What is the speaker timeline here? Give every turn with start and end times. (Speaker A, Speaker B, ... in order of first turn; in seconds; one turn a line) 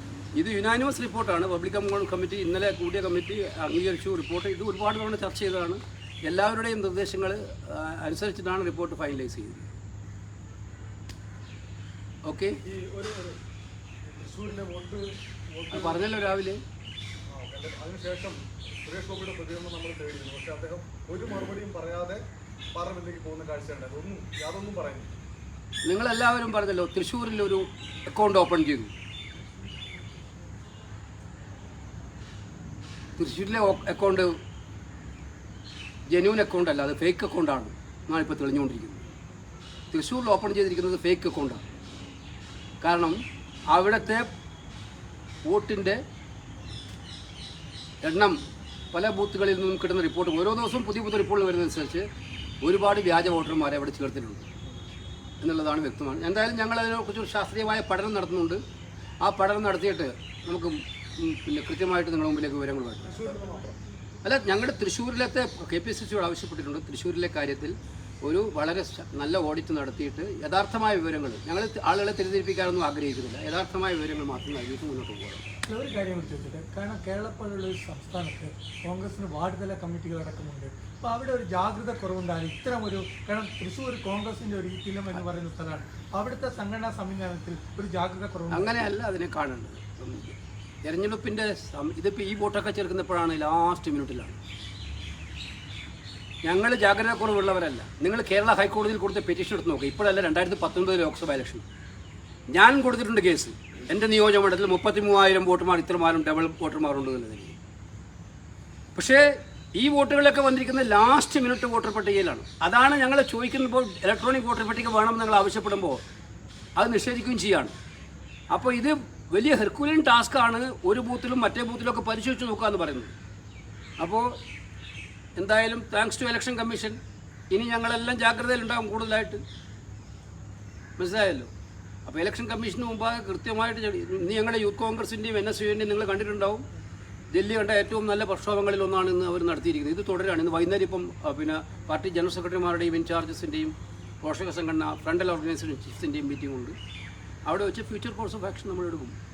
Speaker A: 0.4-9.7
Speaker A: 12.2-12.6
Speaker B: 12.6-13.4
Speaker B: 14.0-16.1
Speaker A: 15.7-16.6
Speaker B: 17.3-22.2
Speaker B: 22.7-25.2
Speaker A: 25.8-28.9
Speaker A: 33.2-34.3
Speaker A: 36.1-39.0
Speaker A: 39.9-41.6
Speaker A: 42.8-44.3
Speaker A: 45.5-46.0
Speaker A: 48.0-48.4
Speaker A: 48.9-52.1
Speaker A: 52.6-54.5
Speaker A: 55.4-58.6
Speaker A: 59.2-63.1
Speaker B: 63.0-63.8
Speaker A: 64.2-75.5
Speaker C: 75.7-88.9
Speaker A: 88.5-94.4
Speaker A: 96.4-101.6
Speaker A: 102.5-107.5
Speaker A: 108.9-116.0
Speaker A: 116.8-117.7
Speaker A: 118.5-123.1
Speaker A: 124.0-124.3
Speaker A: 125.4-127.0
Speaker A: 127.5-129.4
Speaker A: 131.0-131.5
Speaker A: 132.1-136.6
Speaker A: 137.3-146.7
Speaker A: 147.4-149.1